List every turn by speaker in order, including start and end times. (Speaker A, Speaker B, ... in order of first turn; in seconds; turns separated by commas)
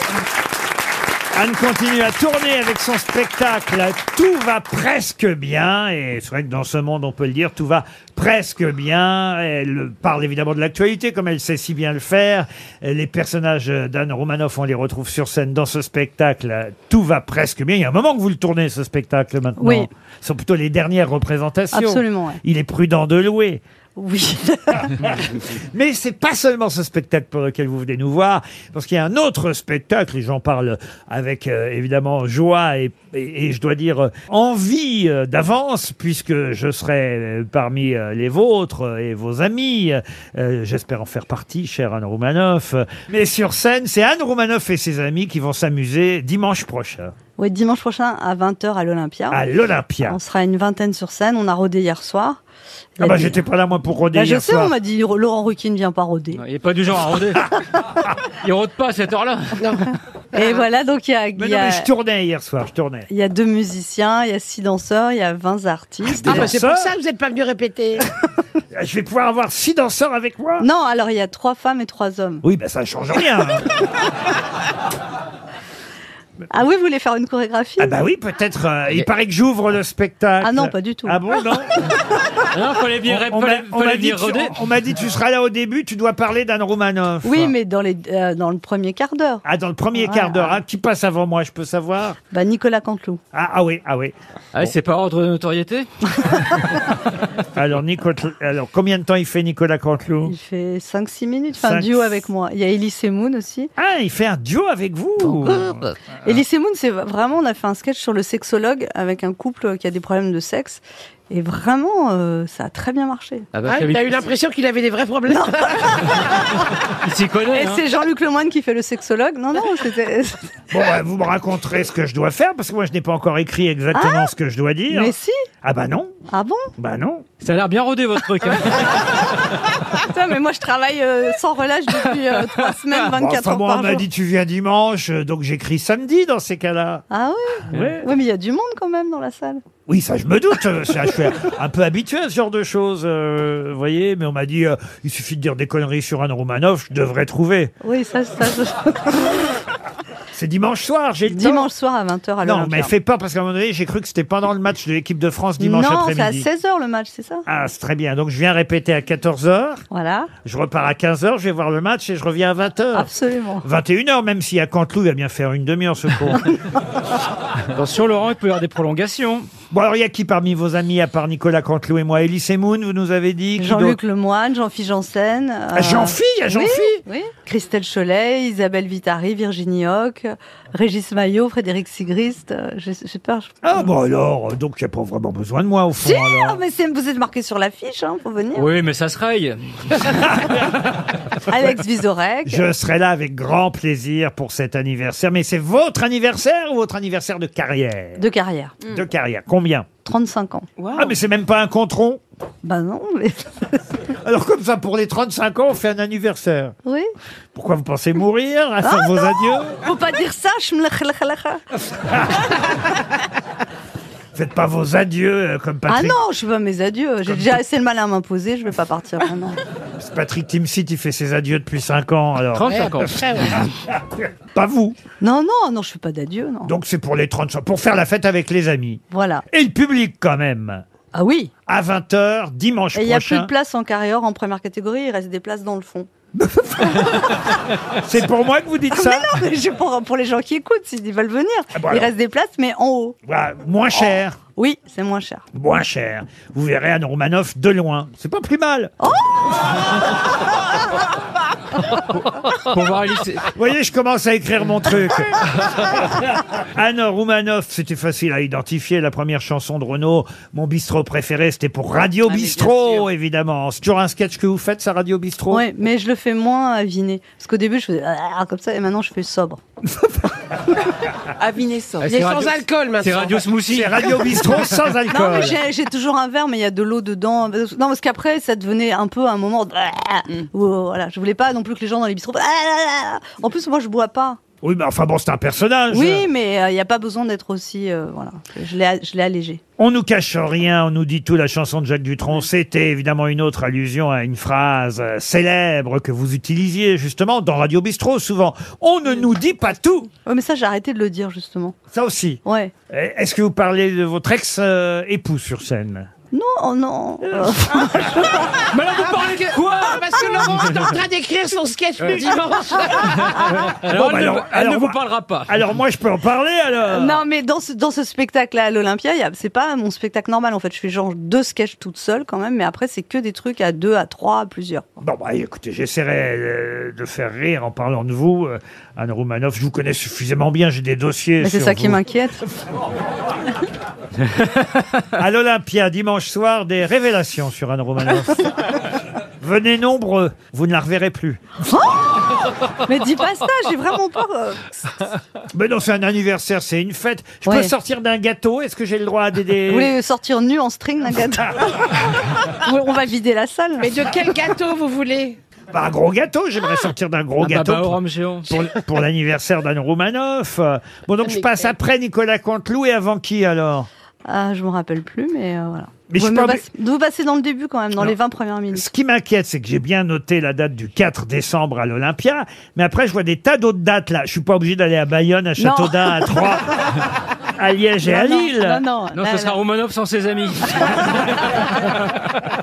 Speaker A: 1.3-23.6, Speaker B: 19.6-19.9, Speaker B: 21.7-22.4, Speaker B: 24.0-24.9, Speaker A: 25.0-47.1, Speaker B: 47.4-49.4, Speaker A: 49.3-50.2, Speaker B: 50.0-52.4, Speaker B: 53.0-53.4, Speaker A: 53.0-54.7, Speaker B: 54.1-56.4, Speaker C: 56.4-57.5, Speaker C: 58.3-60.0, Speaker B: 60.3-61.9, Speaker A: 61.4-63.1, Speaker B: 63.1-66.5, Speaker A: 66.1-66.9, Speaker D: 66.8-68.0, Speaker A: 68.7-70.7, Speaker B: 70.6-72.4, Speaker A: 72.4-73.7, Speaker B: 76.5-77.9, Speaker A: 77.8-81.7, Speaker B: 80.4-81.2, Speaker C: 82.5-84.6, Speaker A: 83.0-87.5, Speaker B: 87.2-89.4, Speaker A: 89.5-92.2, Speaker B: 90.0-90.6, Speaker B: 92.3-93.2, Speaker A: 93.3-94.7, Speaker C: 94.5-96.9, Speaker A: 97.5-100.3, Speaker B: 100.3-103.7, Speaker A: 101.6-102.1, Speaker A: 103.8-105.8, Speaker B: 106.2-113.5, Speaker C: 113.5-114.3, Speaker D: 113.7-115.7, Speaker B: 115.3-116.2, Speaker C: 117.0-117.8, Speaker B: 117.5-120.5, Speaker A: 120.7-126.2, Speaker B: 123.9-124.3, Speaker B: 124.9-125.4, Speaker B: 126.3-126.7, Speaker A: 126.8-127.2, Speaker C: 127.4-129.0, Speaker B: 129.9-134.1, Speaker A: 133.0-137.1, Speaker B: 137.1-139.6, Speaker C: 137.7-138.0, Speaker A: 139.9-147.7, Speaker B: 147.8-149.3, Speaker A: 150.3-151.7, Speaker B: 151.3-152.9, Speaker A: 152.4-156.5, Speaker B: 155.6-157.5, Speaker A: 157.5-159.8, Speaker B: 159.9-160.3, Speaker A: 160.4-163.1, Speaker B: 162.9-163.7, Speaker A: 163.6-166.6, Speaker C: 167.7-169.5, Speaker A: 169.7-174.0, Speaker B: 173.6-183.6, Speaker A: 175.8-177.0, Speaker A: 183.6-186.6, Speaker B: 186.0-188.8, Speaker C: 188.6-190.6, Speaker B: 191.4-192.7, Speaker A: 192.5-198.2, Speaker B: 198.2-198.8, Speaker A: 198.8-199.9, Speaker B: 200.1-200.7, Speaker E: 200.8-201.1, Speaker A: 200.9-202.2, Speaker B: 202.6-203.8, Speaker A: 204.2-206.8, Speaker B: 206.8-207.1, Speaker A: 207.6-209.7, Speaker B: 208.8-211.6, Speaker A: 214.3-216.2, Speaker B: 215.9-219.6, Speaker A: 220.0-225.0, Speaker C: 222.5-223.7, Speaker D: 222.8-223.4, Speaker B: 225.2-226.7, Speaker A: 226.7-230.8, Speaker B: 229.1-229.4, Speaker B: 231.1-231.5, Speaker A: 231.7-233.5, Speaker B: 232.9-236.1, Speaker A: 236.4-237.4, Speaker A: 238.0-239.3, Speaker B: 238.9-243.2, Speaker A: 241.8-242.1, Speaker A: 243.3-244.4, Speaker B: 244.6-245.4, Speaker A: 245.5-248.9, Speaker B: 249.0-249.3, Speaker C: 252.4-253.5, Speaker A: 253.5-265.6, Speaker E: 262.3-263.0, Speaker B: 265.5-269.6, Speaker E: 271.4-272.2, Speaker C: 272.0-274.1, Speaker D: 272.2-273.4, Speaker A: 273.7-275.6, Speaker B: 275.1-284.4, Speaker A: 284.6-286.3, Speaker B: 285.9-289.6, Speaker A: 289.8-300.1, Speaker B: 300.2-301.8, Speaker A: 301.9-306.1, Speaker B: 302.4-302.7, Speaker B: 306.3-308.6, Speaker A: 307.4-308.1, Speaker C: 308.7-310.9, Speaker D: 309.0-313.0, Speaker C: 312.0-315.6, Speaker A: 313.6-317.2, Speaker B: 316.9-324.9, Speaker A: 325.0-332.0, Speaker B: 331.4-332.4, Speaker A: 335.1-338.8, Speaker A: 339.4-341.4, Speaker B: 341.7-342.0, Speaker B: 342.8-345.1, Speaker A: 345.5-349.9, Speaker B: 347.4-347.7, Speaker B: 349.7-351.7, Speaker B: 352.5-354.0, Speaker D: 353.9-355.4, Speaker A: 355.7-363.9, Speaker C: 357.4-358.6, Speaker B: 364.2-368.9, Speaker A: 366.1-366.6, Speaker A: 368.7-377.0, Speaker B: 375.6-376.5, Speaker A: 377.6-378.8, Speaker B: 378.0-379.6, Speaker C: 379.1-381.9